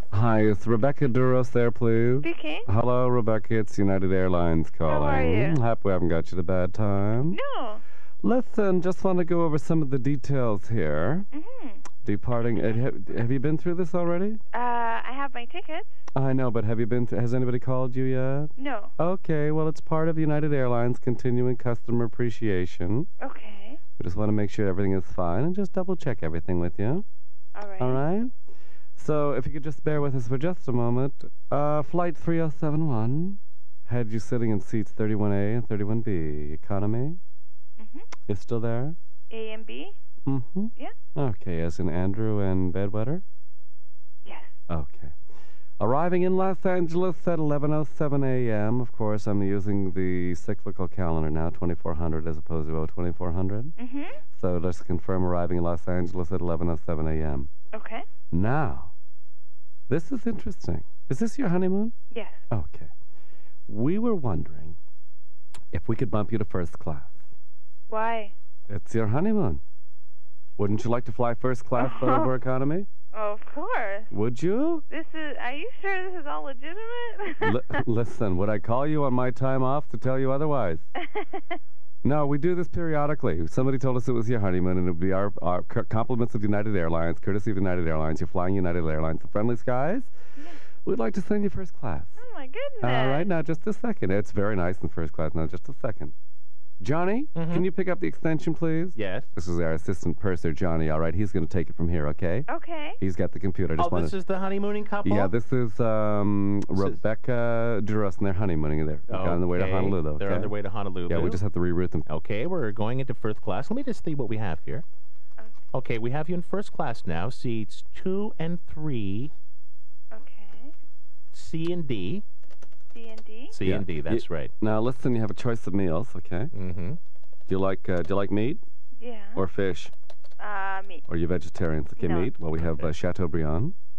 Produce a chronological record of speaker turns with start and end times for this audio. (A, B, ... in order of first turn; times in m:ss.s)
0:00.1-0:07.4 A
0:02.2-0:02.7 B
0:04.9-0:05.6 B
0:07.3-0:07.8 B
0:08.2-0:11.3 A
0:11.3-0:11.8 B
0:12.0-0:14.4 A
0:14.5-0:15.9 B
0:16.1-0:23.1 A
0:18.6-0:18.9 B
0:23.2-0:23.8 B
0:24.0-0:27.0 A
0:27.5-0:28.0 B
0:27.8-0:28.3 A
0:29.0-0:37.2 A
0:37.8-0:38.1 B
0:38.3-0:39.0 A
0:39.3-0:40.0 B
0:40.2-0:43.2 A
0:44.2-0:44.5 B
0:44.7-0:45.1 A
0:45.8-0:53.8 A
0:53.8-0:54.2 B
0:54.3-0:57.5 A
0:57.7-0:58.1 B
0:58.3-0:58.9 A
0:59.9-1:01.9 A
1:02.1-1:02.4 B
1:02.5-1:02.9 A
1:03.7-1:04.8 A
1:05.7-1:07.2 A
1:07.9-1:08.3 B
1:08.7-1:09.6 A
1:10.6-1:12.9 A
1:11.8-1:12.3 B
1:13.1-1:14.1 B
1:14.1-1:14.8 A
1:14.9-1:17.8 B
1:17.4-1:20.9 A
1:21.0-1:21.6 B
1:22.0-1:30.1 A
1:30.8-1:32.2 A
1:32.2-1:33.3 B
1:32.8-1:36.1 A
1:36.8-1:42.5 A
1:37.3-1:37.7 C
1:39.0-1:39.3 C
1:42.5-1:43.0 B
1:43.0-1:44.1 A
1:43.8-1:45.3 C
1:45.0-1:50.6 A
1:49.1-1:51.4 C
1:51.1-1:52.1 A
1:52.1-1:54.8 C
1:55.7-1:59.3 C
2:00.1-2:00.7 B
2:01.3-2:02.2 C
2:02.9-2:03.6 B
2:03.5-2:04.5 C
2:03.6-2:06.5 A
2:06.5-2:07.0 C
2:07.5-2:08.6 A
2:09.0-2:09.4 B
2:09.3-2:09.9 A
2:10.4-2:11.0 B
2:11.1-2:13.7 A
2:12.0-2:12.3 B
2:12.5-2:12.9 C